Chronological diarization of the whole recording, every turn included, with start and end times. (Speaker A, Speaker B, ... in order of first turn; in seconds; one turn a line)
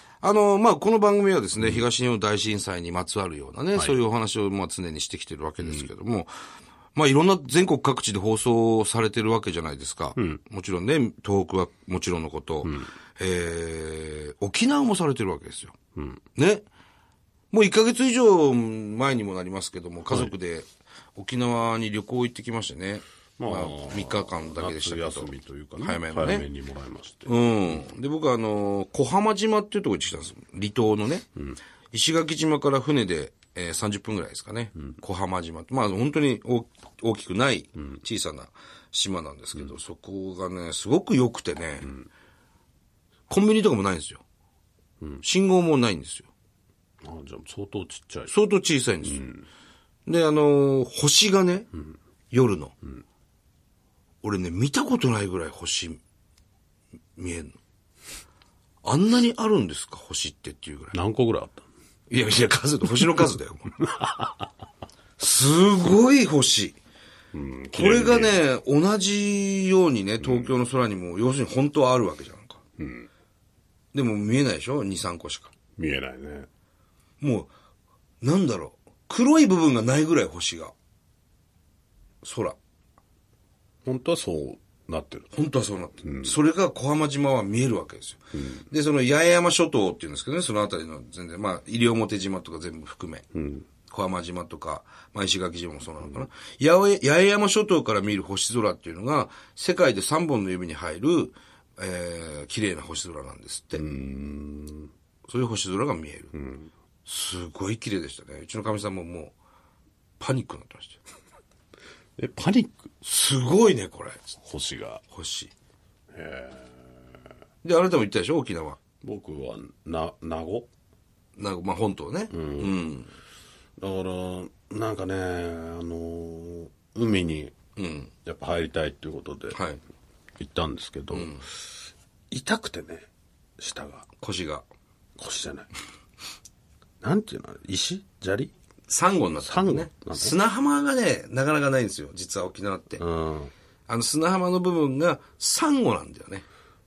Speaker A: 0.2-6.3
Speaker B: 1.6-1.8
Speaker B: 5.6-5.9
Speaker A: 6.9-15.7
Speaker B: 15.9-16.2
Speaker A: 16.4-16.6
Speaker A: 17.5-26.5
Speaker B: 20.1-20.3
Speaker B: 23.4-27.9
Speaker A: 27.2-31.2
Speaker A: 31.9-41.9
Speaker A: 43.3-44.2
Speaker A: 45.2-46.3
Speaker B: 47.0-48.3
Speaker A: 48.3-49.2
Speaker B: 49.0-49.4
Speaker A: 50.1-51.7
Speaker A: 52.3-52.7
Speaker A: 54.2-56.0
Speaker A: 57.2-57.5
Speaker A: 58.8-60.9
Speaker B: 60.9-61.6
Speaker A: 62.1-63.7
Speaker B: 63.8-64.4
Speaker A: 65.2-66.7
Speaker B: 67.3-68.4
Speaker A: 67.7-72.6
Speaker B: 70.2-70.5
Speaker B: 72.8-73.1
Speaker A: 73.9-75.5
Speaker B: 75.8-76.5
Speaker A: 77.2-77.5
Speaker A: 78.2-80.7
Speaker A: 82.2-82.5
Speaker B: 83.8-85.3
Speaker A: 85.3-93.2
Speaker B: 86.0-86.3
Speaker B: 88.3-88.7
Speaker B: 93.3-93.7
Speaker A: 93.9-103.8
Speaker B: 103.8-104.9
Speaker A: 105.3-106.3
Speaker B: 106.3-106.7
Speaker A: 107.0-109.3
Speaker A: 110.2-111.0
Speaker B: 112.2-112.9
Speaker A: 113.0-114.2
Speaker B: 114.4-115.0
Speaker A: 115.1-115.5
Speaker B: 116.1-116.9
Speaker A: 117.6-118.8
Speaker B: 119.0-120.7
Speaker A: 121.4-123.1
Speaker B: 122.3-122.8
Speaker B: 123.8-127.5
Speaker A: 127.8-128.1
Speaker B: 128.2-129.6
Speaker A: 129.5-129.8
Speaker B: 130.4-131.4
Speaker A: 131.1-131.4
Speaker B: 132.3-133.1
Speaker B: 133.6-134.0
Speaker A: 134.2-134.7
Speaker B: 135.2-135.7
Speaker B: 137.0-138.5
Speaker A: 138.9-143.0
Speaker B: 139.4-140.4
Speaker B: 143.0-143.5
Speaker A: 143.9-146.4